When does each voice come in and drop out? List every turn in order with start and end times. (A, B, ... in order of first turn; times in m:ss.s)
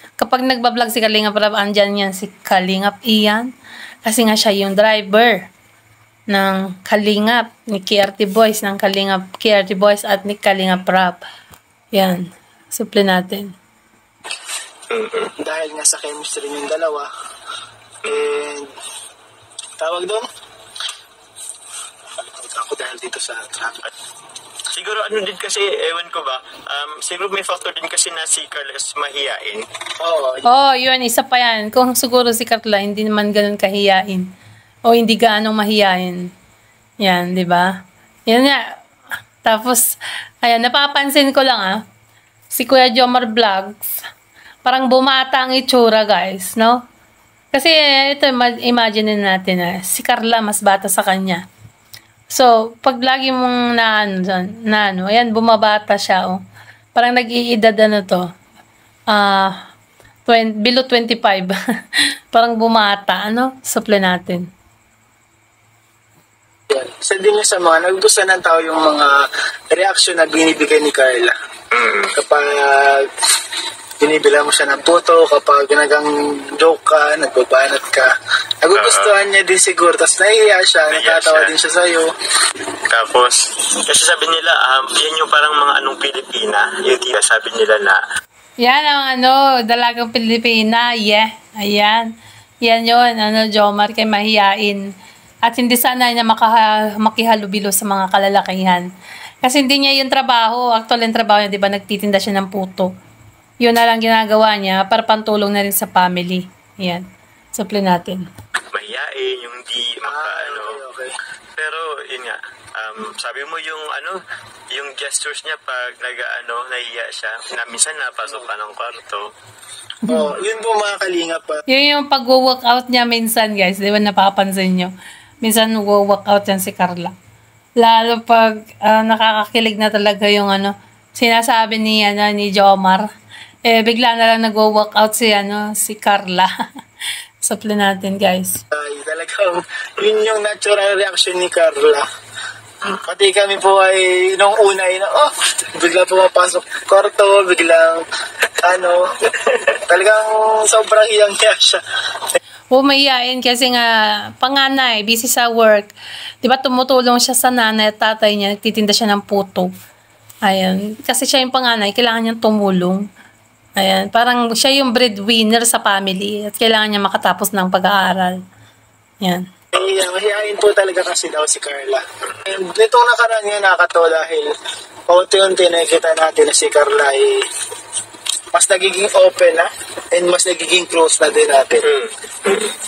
0:00.2-0:03.5 A
0:04.0-0:05.5 A
0:06.3-0:11.2 A
0:11.9-0:13.5 A
0:14.9-0:15.3 B
0:15.4-0:17.1 C
0:18.0-0:18.5 B
0:18.0-0:18.7 C
0:19.8-0:20.3 C
0:22.2-0:23.8 C
0:24.7-0:29.7 B
0:30.0-0:30.5 C
0:30.4-0:34.3 A
0:34.9-0:36.3 A
0:37.0-0:37.7 A
0:38.3-0:38.7 A
0:39.4-0:41.8 A
0:42.5-0:44.0 A
0:44.6-0:46.8 A
0:47.5-0:51.4 A
0:52.3-0:56.4 A
0:57.0-0:58.3 A
0:59.1-0:59.6 A
1:00.3-1:04.5 A
1:06.7-1:11.4 C
1:11.7-1:12.2 B
1:12.2-1:13.1 C
1:14.0-1:22.1 C
1:18.7-1:19.2 B
1:20.9-1:21.6 B
1:22.9-1:28.0 B
1:28.6-1:34.9 A
1:35.4-1:38.9 A
1:39.4-1:42.9 A
1:43.6-1:48.2 A
1:48.7-1:50.8 B
1:50.0-1:51.2 C
1:51.6-1:54.2 B
1:54.7-1:59.3 B
1:58.2-1:58.5 C
2:00.0-2:01.6 C
2:00.1-2:00.3 A
2:01.7-2:04.9 A
2:05.4-2:07.1 A
2:07.8-2:13.1 A
2:13.6-2:16.5 A
2:17.4-2:18.6 A
2:18.7-2:22.1 C
2:23.0-2:28.0 C
2:28.6-2:32.4 C
2:32.7-2:35.9 A
2:36.4-2:39.7 A
2:40.4-2:43.0 A
2:43.8-2:48.4 A
2:49.2-2:49.5 A
2:49.7-2:54.5 C
2:49.8-2:50.0 B
2:55.1-2:57.4 C
2:58.5-3:01.9 C
3:01.8-3:02.8 B